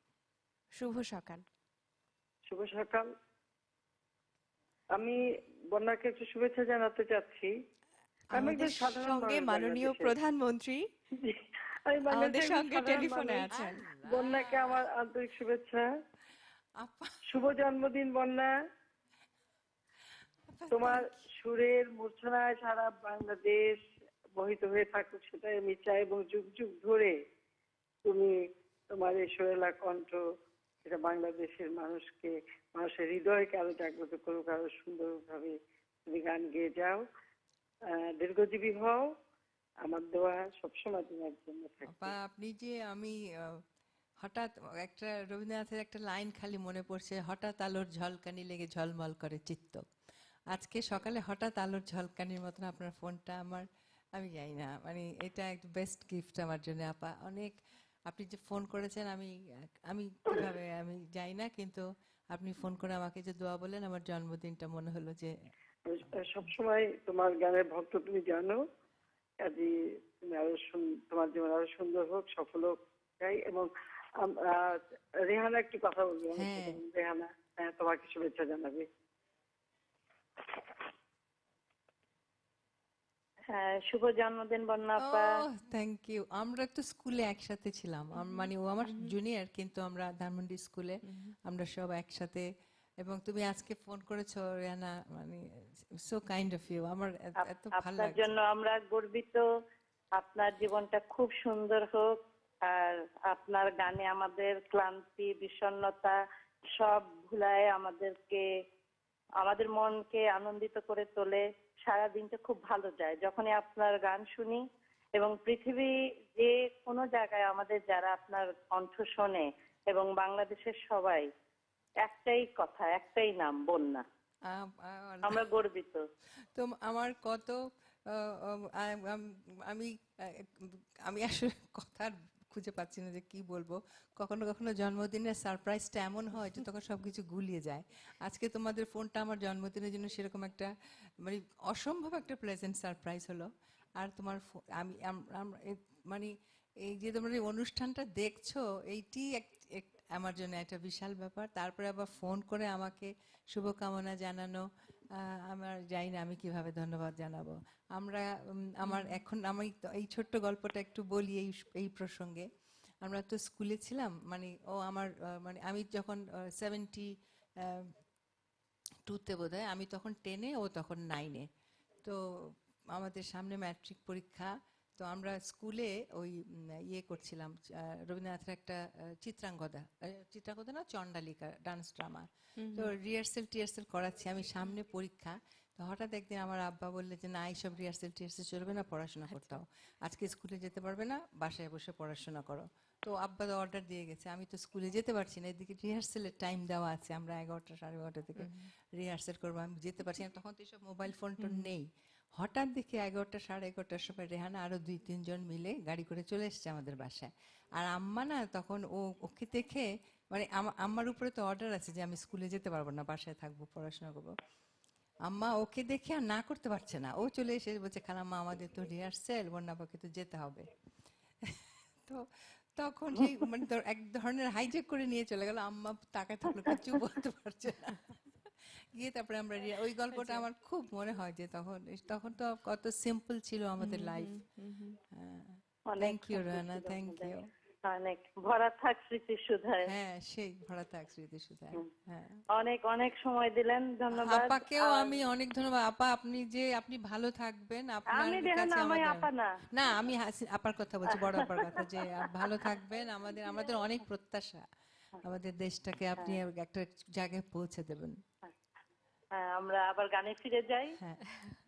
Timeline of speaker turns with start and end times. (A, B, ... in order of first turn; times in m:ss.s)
0:00.7-0:01.4 A
0:02.5-0:03.1 B
0:04.9-0:07.5 B
0:08.3-0:10.9 A
0:08.3-0:10.2 B
0:11.2-0:15.9 B
0:12.1-0:13.8 A
0:13.5-0:14.8 C
0:16.8-0:17.2 C
0:17.3-0:18.5 B
0:20.5-0:21.1 C
0:20.7-0:23.8 B
0:24.3-0:27.2 B
0:28.0-0:28.3 B
0:28.9-0:30.2 B
0:30.8-0:37.0 B
0:37.9-0:39.1 B
0:39.8-0:42.2 B
0:41.9-0:43.6 C
0:44.2-0:49.8 C
0:50.5-0:57.6 C
0:58.1-0:59.3 C
0:59.9-1:05.3 C
1:05.8-1:08.6 B
1:09.4-1:18.9 B
1:16.3-1:16.8 C
1:23.5-1:25.3 D
1:25.0-1:32.4 C
1:28.2-1:29.1 A
1:31.0-1:31.3 A
1:33.0-1:38.3 C
1:37.7-1:39.4 D
1:40.2-1:42.1 D
1:42.6-1:46.2 D
1:46.8-1:48.4 D
1:49.4-1:54.6 D
1:55.2-2:01.2 D
2:02.0-2:04.0 D
2:04.5-2:05.4 C
2:05.2-2:06.0 D
2:06.5-2:07.6 C
2:08.1-2:20.7 C
2:21.2-2:23.5 C
2:24.0-2:34.6 C
2:35.2-2:42.4 C
2:38.8-2:39.2 A
2:43.0-2:47.1 C
2:47.6-2:47.9 C
2:49.1-2:51.4 C
2:52.0-3:21.9 C
3:02.6-3:02.9 A
3:09.3-3:09.6 A
3:18.4-3:18.7 A
3:21.4-3:21.7 A
3:22.4-3:34.3 C
3:35.2-3:40.6 C
3:41.4-3:42.2 C
3:42.8-3:48.2 C
3:48.9-3:54.3 C
3:50.1-3:50.4 A
3:53.8-3:55.0 A
3:55.1-3:57.4 C
3:55.9-3:57.3 D
3:57.8-3:59.9 D
3:59.8-4:02.4 C
4:02.5-4:05.3 D
4:04.1-4:14.6 C
4:08.1-4:09.5 D
4:11.1-4:11.8 D
4:15.2-4:18.2 C
4:19.4-4:21.0 D